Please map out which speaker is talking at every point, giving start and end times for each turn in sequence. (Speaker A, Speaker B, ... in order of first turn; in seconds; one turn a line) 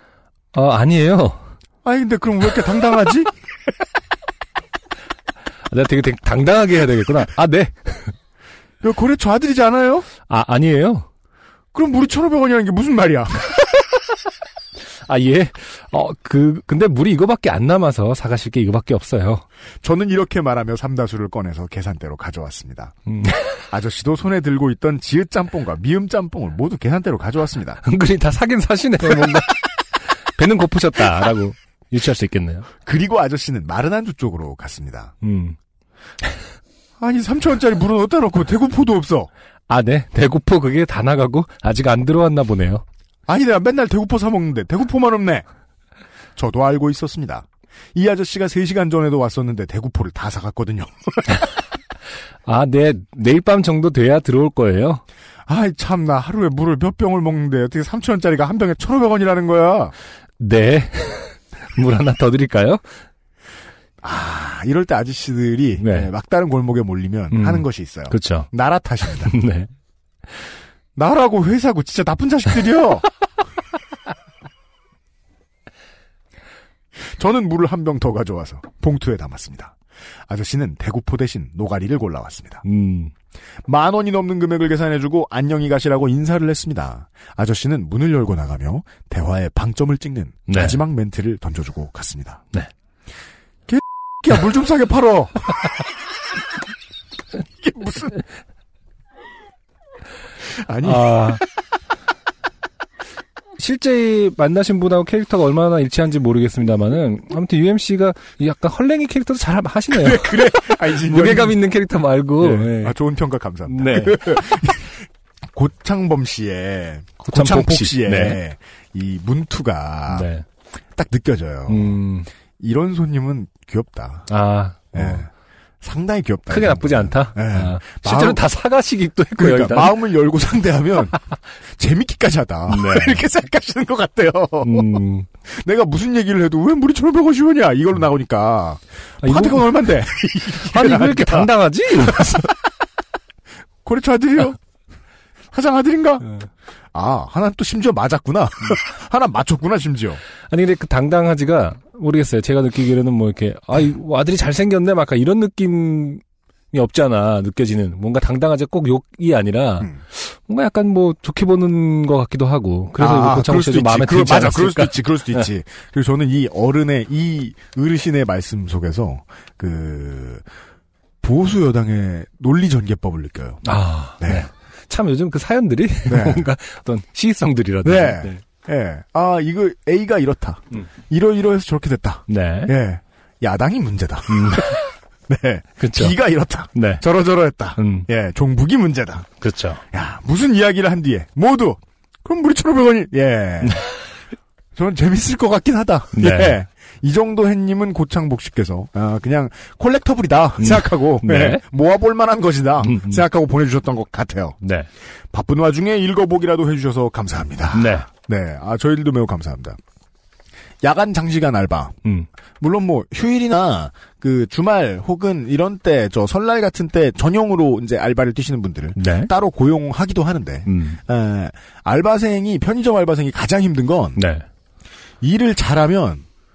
Speaker A: 0.5-1.4
Speaker B: 1.8-3.3
Speaker A: 5.7-8.1
Speaker B: 8.8-10.1
Speaker A: 10.3-11.1
Speaker B: 11.7-13.5
Speaker A: 15.0-19.4
Speaker B: 19.8-22.9
Speaker A: 23.1-23.6
Speaker B: 23.7-27.8
Speaker A: 27.8-29.7
Speaker B: 29.1-29.4
Speaker A: 30.3-32.7
Speaker B: 32.8-35.1
Speaker A: 35.2-35.6
Speaker B: 37.0-39.3
Speaker A: 39.7-42.8
Speaker B: 43.3-45.4
Speaker B: 46.4-51.4
Speaker A: 52.4-55.0
Speaker B: 55.5-59.9
Speaker A: 60.4-62.8
Speaker B: 64.0-69.3
Speaker A: 65.8-66.1
Speaker A: 67.3-68.5
Speaker A: 69.1-69.7
Speaker B: 71.0-73.0
Speaker B: 77.0-79.8
Speaker B: 80.3-82.6
Speaker A: 82.6-83.1
Speaker B: 83.7-92.4
Speaker A: 90.5-90.8
Speaker B: 93.7-95.7
Speaker B: 97.6-98.2
Speaker B: 100.5-101.3
Speaker A: 100.8-101.4
Speaker A: 103.6-113.0
Speaker B: 109.9-111.6
Speaker B: 112.4-120.3
Speaker A: 113.7-114.4
Speaker A: 117.2-118.4
Speaker A: 120.1-120.4
Speaker B: 120.9-122.0
Speaker A: 121.7-122.3
Speaker B: 122.6-124.3
Speaker A: 124.3-125.2
Speaker B: 124.9-125.3
Speaker B: 125.8-128.4
Speaker A: 126.5-130.0
Speaker B: 129.4-131.2
Speaker B: 131.8-142.4
Speaker A: 132.7-133.2
Speaker A: 134.6-135.3
Speaker A: 139.2-139.9
Speaker A: 140.6-142.5
Speaker B: 143.8-144.6
Speaker B: 145.5-146.3
Speaker B: 146.9-150.2
Speaker A: 150.5-165.5
Speaker B: 163.0-170.4
Speaker B: 171.2-173.6
Speaker A: 173.6-178.4
Speaker B: 174.2-174.5
Speaker B: 176.1-176.5
Speaker B: 177.8-189.3
Speaker A: 182.3-182.7
Speaker A: 184.3-184.8
Speaker A: 185.8-186.2
Speaker A: 186.7-187.0
Speaker A: 187.8-188.1
Speaker A: 189.4-189.8
Speaker B: 189.9-193.8
Speaker B: 194.7-204.6
Speaker A: 196.1-196.6
Speaker A: 200.6-201.6
Speaker A: 202.8-203.2
Speaker A: 204.6-204.9
Speaker B: 205.3-209.8
Speaker A: 207.7-208.1
Speaker B: 210.8-211.9
Speaker B: 212.6-224.2
Speaker A: 218.9-219.3
Speaker A: 220.7-221.0
Speaker A: 224.2-224.4
Speaker B: 225.2-226.2